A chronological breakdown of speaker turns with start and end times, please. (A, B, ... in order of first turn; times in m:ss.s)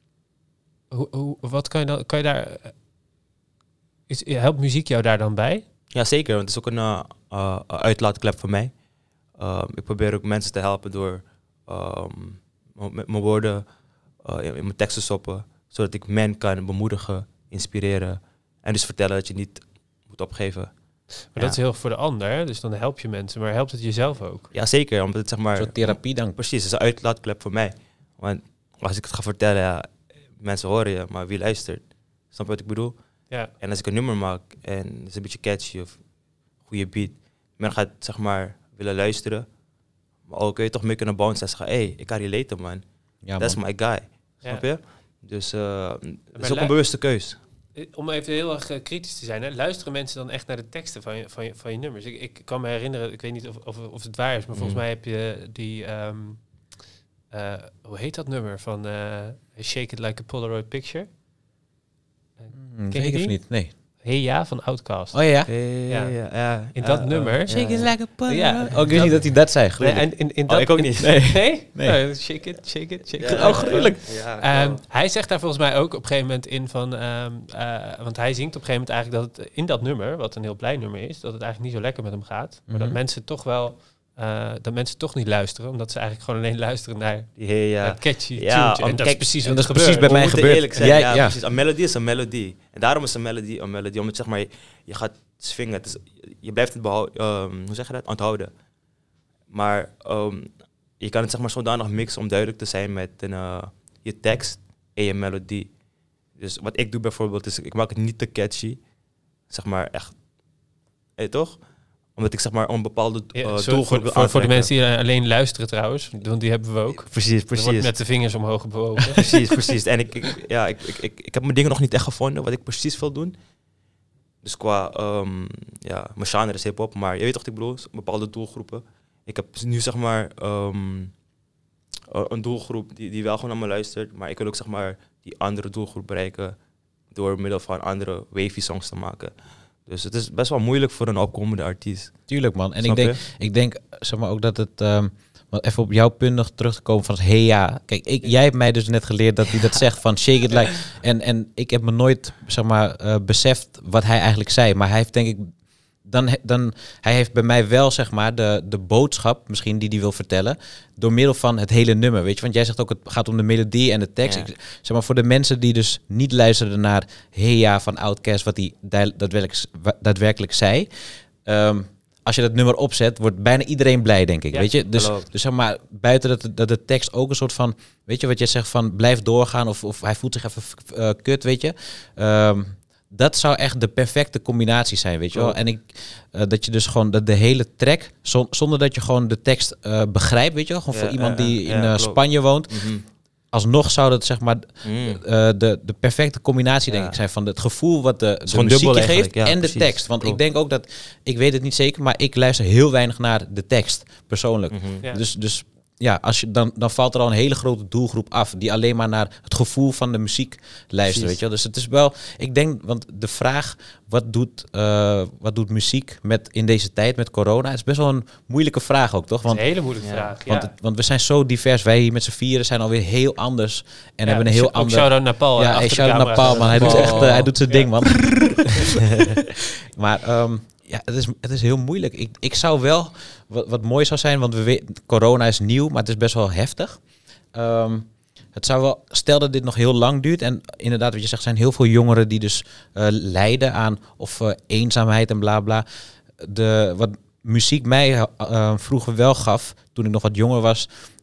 0:00.9-0:02.8 A
0:04.1-0:05.6 A
0:05.9-0:08.7 B
0:09.4-0:13.7 B
0:14.2-0:20.7 B
0:21.3-0:24.5 A
0:24.5-0:33.0 B
0:25.6-0:26.4 C
0:33.5-0:36.0 B
0:36.6-0:39.5 B
0:40.3-0:42.8 B
0:43.2-0:43.6 C
0:43.4-0:47.4 B
0:46.4-0:46.7 A
0:47.8-0:56.8 A
0:54.6-0:54.8 B
0:57.3-1:01.1 A
1:02.4-1:05.2 A
1:02.5-1:03.7 C
1:05.1-1:05.5 C
1:05.5-1:08.0 B
1:05.9-1:06.2 A
1:06.7-1:31.0 A
1:07.5-1:10.2 C
1:10.5-1:11.4 B
1:11.0-1:12.0 C
1:13.2-1:14.8 B
1:13.2-1:14.0 C
1:22.7-1:23.0 C
1:27.4-1:38.5 B
1:29.4-1:31.4 C
1:39.5-1:45.7 B
1:46.4-1:48.8 B
1:49.5-1:50.2 B
1:51.2-1:51.6 B
1:52.2-1:54.7 B
1:53.4-1:59.4 A
1:57.0-1:57.9 B
1:59.2-2:03.3 B
2:04.4-2:11.1 B
2:12.1-2:16.6 B
2:17.1-2:19.3 B
2:19.9-2:22.2 B
2:22.3-3:12.9 C
2:22.8-2:23.2 B
2:54.9-2:55.3 B
3:10.9-3:13.0 B
3:13.5-3:39.8 C
3:14.8-3:15.2 B
3:16.9-3:17.2 B
3:18.5-3:20.4 B
3:24.7-3:25.0 B
3:31.1-3:31.4 B
3:39.5-3:40.7 A
3:40.0-3:40.3 B
3:40.4-3:49.4 C
3:44.2-3:48.9 A
3:46.4-3:47.5 B
3:49.9-3:57.0 C
3:57.5-4:05.8 C
4:06.4-4:10.9 C